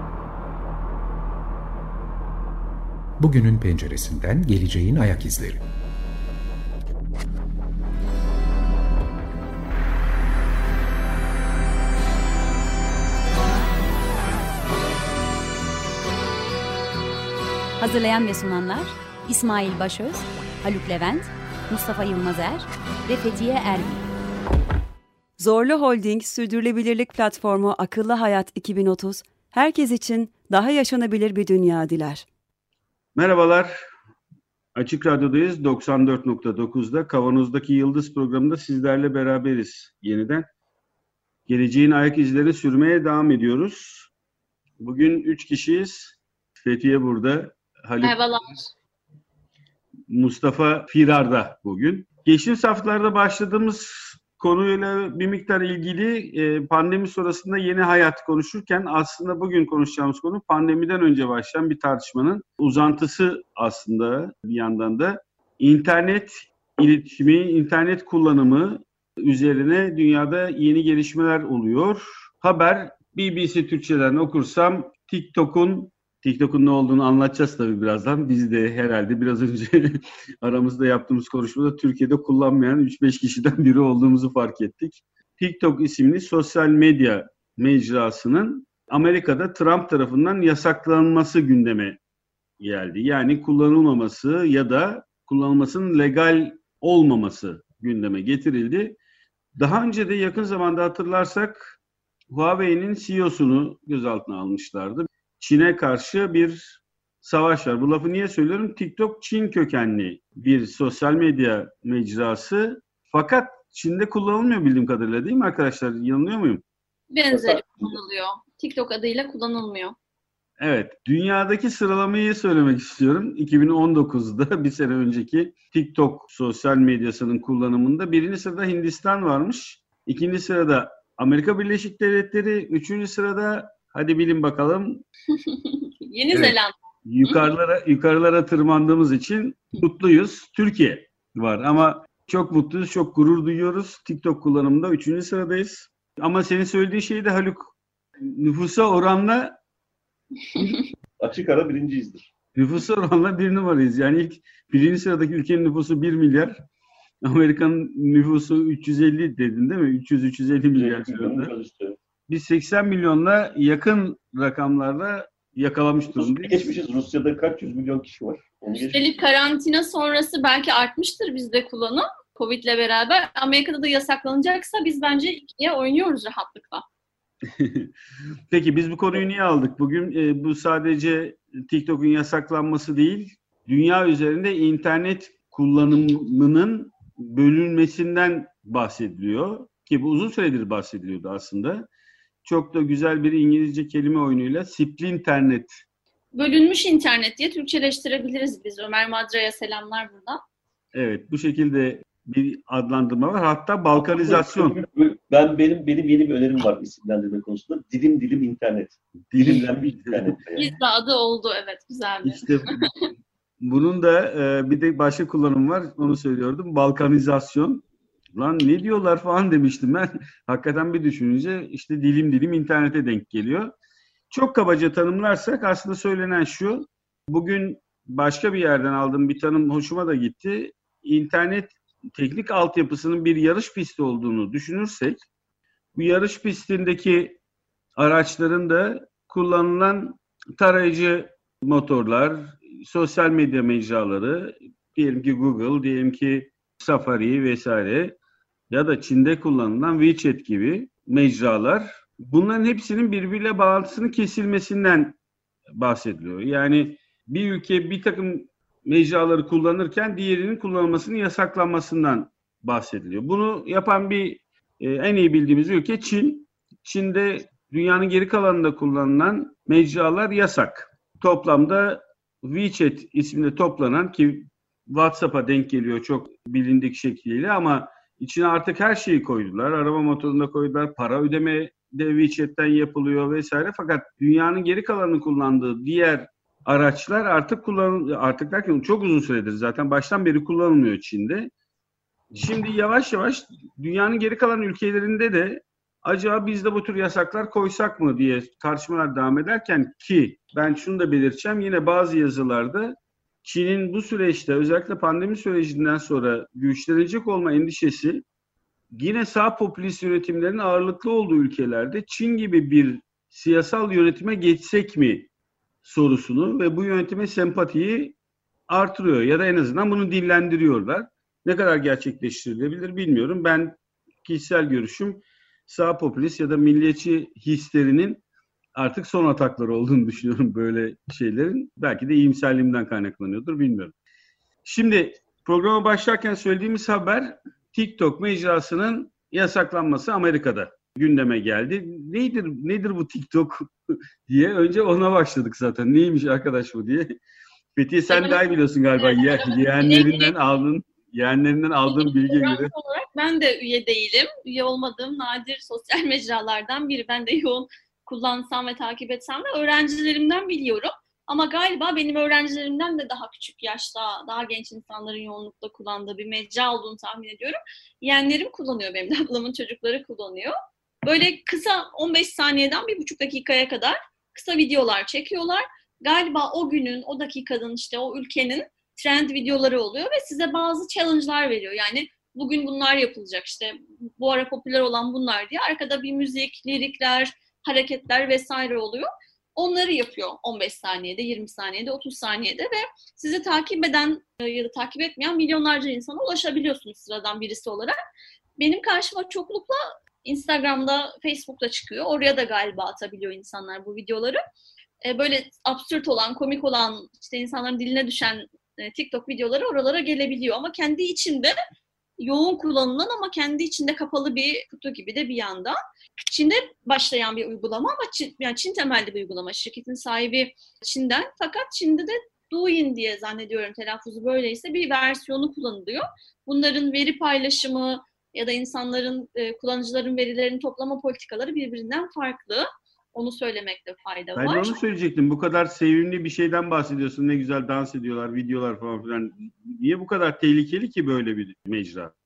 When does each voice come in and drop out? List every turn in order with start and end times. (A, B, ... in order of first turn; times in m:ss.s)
0:03.2-0:05.6 A
0:17.8-0:24.1 B
0:25.4-0:32.3 C
0:33.2-0:33.7 D
0:34.8-0:40.5 D
0:41.5-0:44.1 D
0:44.8-0:48.2 D
0:48.0-0:48.7 E
0:50.1-1:32.0 D
1:32.6-1:39.0 D
1:39.6-1:41.8 D
1:42.3-1:56.6 D
1:57.1-2:00.0 E
1:57.3-1:58.0 F
2:00.6-2:15.0 D
2:15.4-2:17.5 E
2:16.3-2:29.6 D
2:30.6-2:30.9 D
2:31.2-2:32.3 F
2:32.6-2:36.6 D
2:37.2-2:41.5 D
2:40.8-2:42.0 F
2:42.3-2:46.7 D
2:46.1-2:49.1 F
2:48.8-2:56.8 E
2:57.6-2:57.9 D
2:58.5-3:11.9 D
3:12.4-3:15.8 D
3:16.4-3:20.4 E
3:20.9-3:24.8 D
3:24.0-3:30.7 F
3:29.3-3:30.4 D
3:30.6-3:32.9 E
3:32.2-3:32.9 D
3:33.6-3:37.8 D
3:38.4-3:43.7 D
3:44.3-3:55.2 D
3:56.0-3:57.4 D
3:58.0-4:08.2 D
4:08.7-4:15.2 D
4:15.8-4:51.5 D
4:52.3-5:08.2 D
5:08.9-5:15.3 D
5:15.8-5:18.2 D
5:18.7-5:28.2 D
5:28.8-5:33.9 D
5:34.6-5:47.1 D
5:47.8-5:52.7 D
5:48.1-5:50.3 E
5:51.9-6:10.5 E
6:11.0-6:38.0 E
6:38.6-6:44.4 E
6:45.0-6:51.6 E
6:52.2-7:14.8 E
7:14.4-7:22.1 D